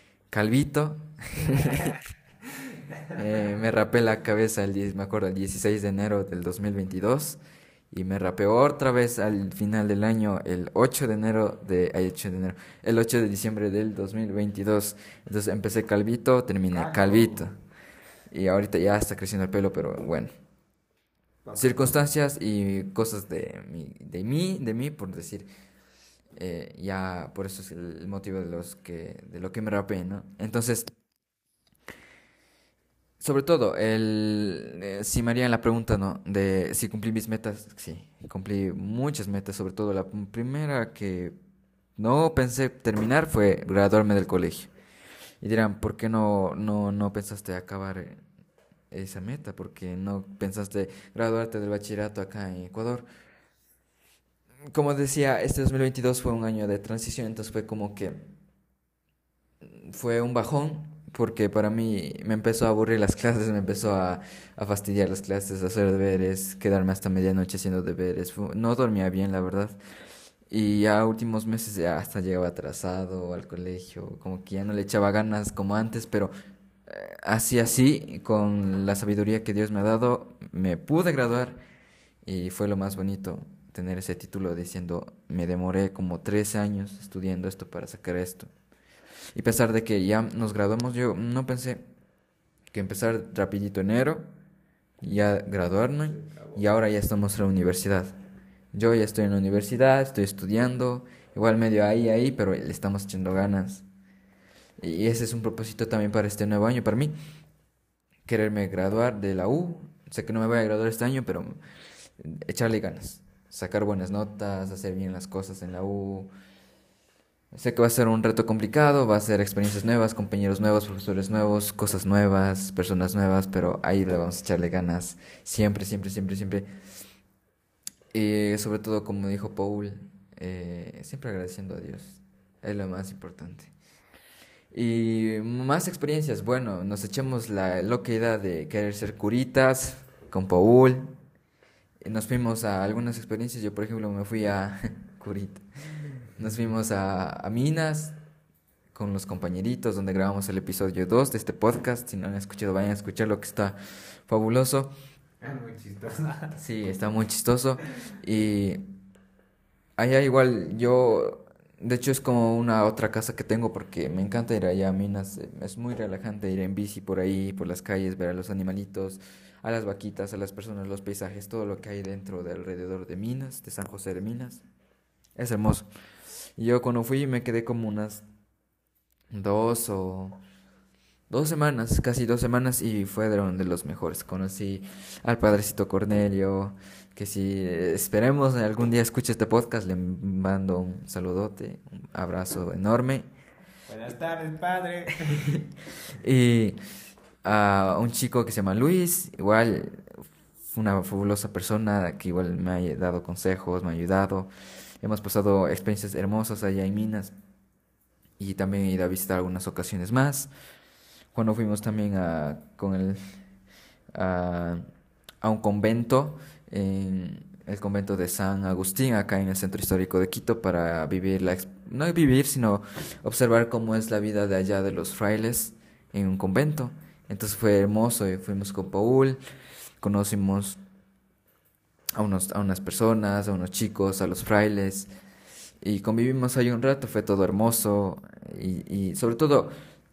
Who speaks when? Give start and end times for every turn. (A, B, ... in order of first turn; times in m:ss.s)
0:00.3-0:02.0 A
0:03.1-0:07.4 A
0:07.9-0:17.6 A
0:16.7-0:17.4 B
0:18.3-0:20.3 A
0:21.4-0:21.9 B
0:21.6-0:25.5 A
0:26.4-0:30.9 A
0:33.2-0:41.4 A
0:42.0-0:44.7 A
0:45.4-0:48.2 A
0:48.9-0:53.1 A
0:54.7-0:58.2 A
0:59.6-1:09.8 A
1:10.5-1:16.3 A
1:16.9-1:21.6 A
1:22.2-1:28.5 A
1:29.4-1:31.9 A
1:32.7-1:34.3 A
1:35.0-1:38.1 A
1:36.1-1:36.7 B
1:38.7-1:43.8 A
1:44.8-1:47.2 A
1:48.3-1:51.6 A
1:52.2-1:56.3 A
1:57.5-2:06.7 A
2:08.1-2:13.7 A
2:14.7-2:21.2 A
2:22.0-2:25.6 A
2:26.4-2:28.2 A
2:28.9-2:34.9 A
2:35.4-2:36.6 B
2:36.6-2:38.8 A
2:40.0-2:54.6 A
2:55.4-2:55.9 A
2:56.6-2:58.2 A
2:59.3-3:00.4 A
3:01.3-3:13.3 A
3:13.9-3:15.5 B
3:16.2-3:16.8 A
3:17.4-3:27.3 A
3:28.4-3:30.5 A
3:31.3-3:33.2 A
3:34.2-3:34.9 A
3:35.4-3:49.4 A
3:50.0-3:50.8 A
3:52.2-3:55.1 A
3:55.8-3:59.7 A